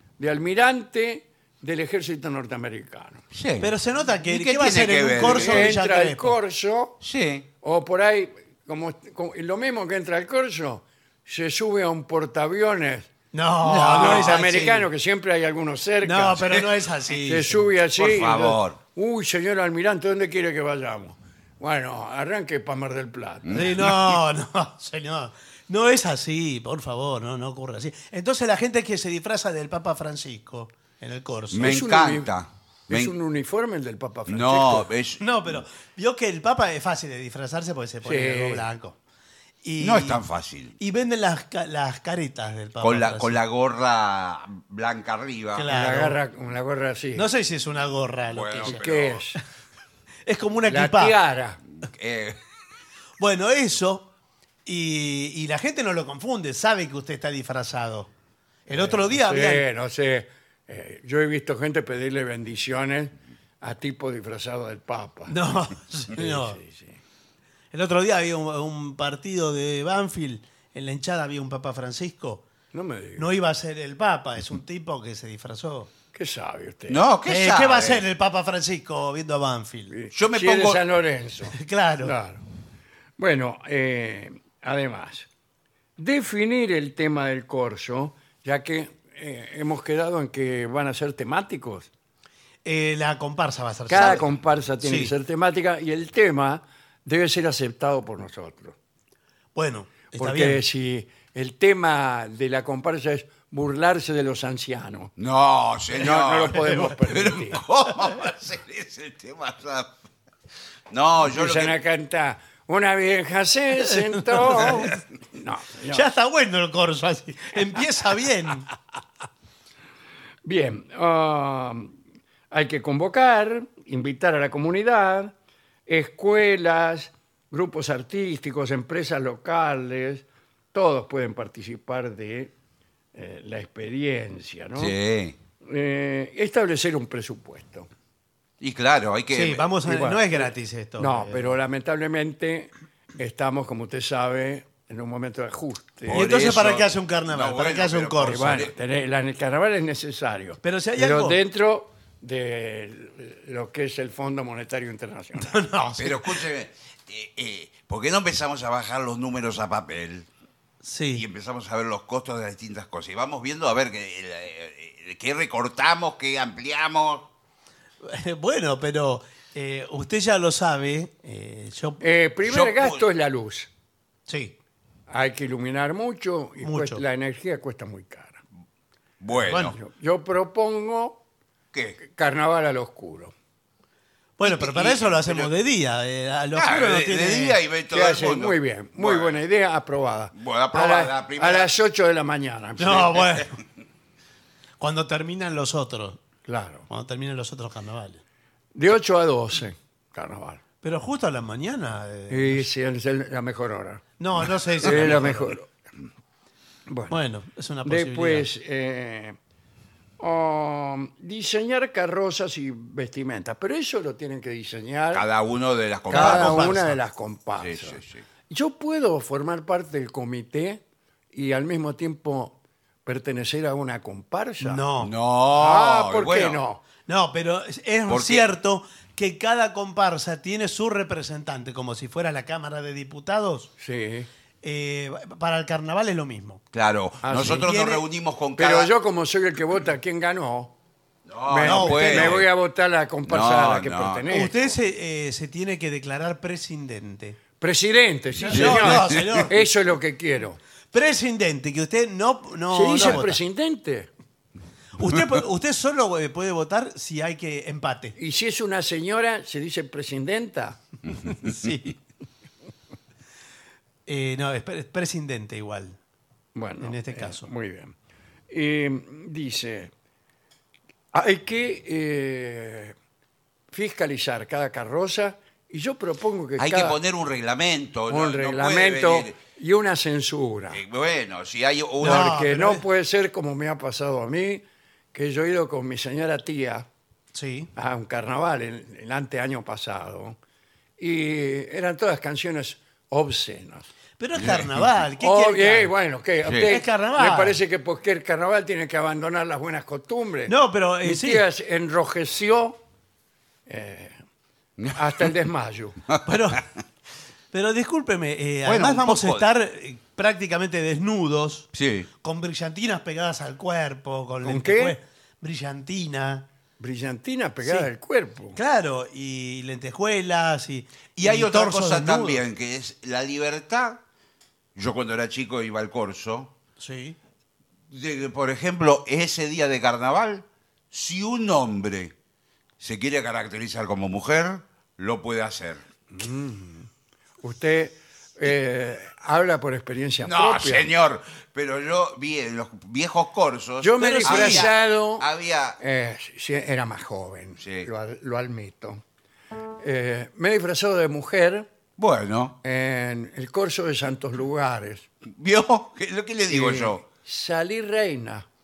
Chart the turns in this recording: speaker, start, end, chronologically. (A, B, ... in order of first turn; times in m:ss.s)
0:00.2-0:03.2 A
0:03.3-0:03.7 B
0:03.6-0:06.4 C
0:04.2-0:05.8 B
0:05.2-0:07.0 A
0:07.0-0:07.4 B
0:07.6-0:13.1 A
0:13.3-0:14.9 C
0:13.6-0:14.4 B
0:13.8-0:16.6 A
0:16.0-0:17.7 C
0:17.2-0:23.8 A
0:18.0-0:18.8 B
0:23.4-0:24.1 B
0:23.5-0:31.7 C
0:31.5-0:33.1 B
0:31.6-0:32.3 A
0:32.9-0:34.9 A
0:34.3-0:35.2 B
0:35.2-0:39.0 C
0:38.0-0:38.6 A
0:39.6-0:40.2 C
0:39.8-0:40.8 B
0:40.8-0:43.4 C
0:42.8-0:45.7 B
0:45.5-0:46.2 C
0:45.7-0:47.3 A
0:47.1-0:48.8 C
0:48.3-0:49.2 B
0:48.6-0:49.4 A
0:50.2-0:51.2 C
0:50.7-0:51.6 A
0:51.8-0:52.4 B
0:53.2-0:54.1 C
0:54.6-0:58.1 C
0:58.7-0:59.6 C
0:58.7-1:05.3 A
1:05.3-1:06.6 C
1:06.1-1:07.0 A
1:07.7-1:12.4 C
1:12.7-1:13.3 A
1:13.2-1:15.9 C
1:16.1-1:17.0 A
1:16.9-1:18.0 B
1:17.2-1:19.9 C
1:19.9-1:22.4 A
1:20.1-1:20.8 B
1:21.5-1:22.1 C
1:23.2-1:25.3 A
1:26.0-1:31.9 A
1:32.6-1:34.2 C
1:33.9-1:38.7 A
1:34.8-1:35.1 C
1:39.5-1:40.6 C
1:40.1-1:45.1 A
1:45.2-1:49.9 B
1:45.9-1:47.6 A
1:46.6-1:46.9 C
1:50.9-1:51.8 B
1:51.2-1:56.0 A
1:53.8-1:55.0 C
1:55.9-1:58.7 C
2:00.4-2:01.9 A
2:02.5-2:05.3 A
2:05.9-2:12.5 A
2:13.1-2:14.9 A
2:14.8-2:15.4 B
2:15.6-2:17.9 A
2:18.6-2:19.7 B
2:19.3-2:21.5 C
2:19.8-2:26.3 A
2:26.1-2:28.7 B
2:26.1-2:28.6 C
2:28.2-2:35.6 A
2:30.6-2:31.4 C
2:35.4-2:36.3 C
2:36.0-2:40.3 B
2:40.8-2:41.2 C
2:41.1-2:47.3 B
2:48.0-2:52.0 C
2:52.0-2:53.7 A
2:52.4-2:53.0 B
2:54.3-2:54.5 C
2:55.1-2:58.4 A
2:56.6-2:57.0 C
2:59.2-2:59.8 B
2:59.5-2:59.7 C
2:59.7-3:01.2 A
3:01.7-3:02.0 B
3:02.0-3:03.3 A
3:04.4-3:07.6 C
3:04.4-3:05.5 B
3:06.5-3:09.4 B
3:07.9-3:13.4 A
3:10.3-3:11.7 B
3:12.8-3:13.6 C
3:14.8-3:16.2 C
3:16.5-3:16.9 A
3:16.9-3:18.2 C
3:18.7-3:20.6 A
3:20.8-3:22.7 C
3:22.3-3:24.0 A
3:24.2-3:25.6 C
3:24.8-3:25.7 A
3:26.9-3:27.2 A
3:27.1-3:28.5 C
3:27.8-3:29.4 A
3:30.2-3:35.2 A
3:35.1-3:36.8 B
3:36.1-3:40.8 A
3:36.1-3:37.0 C
3:37.6-3:38.2 B
3:41.3-3:44.8 A
3:44.6-3:45.1 C
3:45.0-3:46.6 B
3:45.5-3:46.8 A
3:47.0-3:53.7 C
3:48.1-3:48.5 B
3:53.8-3:54.3 A
3:54.6-3:56.6 C
3:56.7-3:58.9 B
3:57.2-3:57.7 A
3:57.4-3:58.0 C
3:58.6-4:00.7 A
4:01.3-4:02.5 B
4:01.4-4:04.7 A
4:01.6-4:02.4 C
4:03.2-4:04.3 B
4:04.3-4:07.4 C
4:07.6-4:10.6 A
4:08.4-4:09.6 C
4:08.5-4:09.5 B
4:10.9-4:13.4 C
4:12.7-4:14.1 A
4:15.0-4:18.1 C
4:18.2-4:20.8 A
4:21.2-4:21.9 C
4:24.0-4:26.0 C
4:26.5-4:27.9 A
4:26.8-4:27.5 C
4:28.5-4:29.9 A
4:31.1-4:32.9 A
4:33.7-4:37.0 A
4:36.6-4:39.3 B
4:38.1-4:40.8 A
4:40.7-4:42.3 B
4:42.0-4:42.8 C
4:42.0-4:44.6 A
4:45.1-4:46.8 A
4:47.3-4:47.7 C
4:47.8-4:50.4 A
4:51.0-4:53.9 A
4:54.2-4:55.9 C
4:54.4-4:54.8 B
4:55.2-5:02.8 A
4:56.6-4:57.6 C
5:00.5-5:01.4 C
5:03.7-5:04.2 A
5:04.9-5:06.0 A
5:06.2-5:06.6 C
5:07.5-5:11.7 C
5:08.6-5:09.4 B
5:11.7-5:12.1 B
5:12.2-5:16.4 C
5:14.4-5:15.0 A
5:16.8-5:18.6 A
5:17.6-5:17.9 C
5:18.5-5:22.4 C
5:21.2-5:24.0 B
5:24.7-5:26.5 B
5:26.8-5:27.2 C
5:27.9-5:32.1 B
5:32.8-5:35.8 B
5:36.1-5:36.9 A
5:37.4-5:40.9 A
5:40.2-5:45.8 B
5:43.8-5:45.3 A
5:44.0-5:44.7 C
5:45.8-5:49.0 A
5:47.6-5:47.9 B
5:49.8-5:51.7 A
5:52.0-5:52.6 B
5:52.6-5:55.1 A
5:55.3-5:57.0 B
5:56.5-5:58.4 A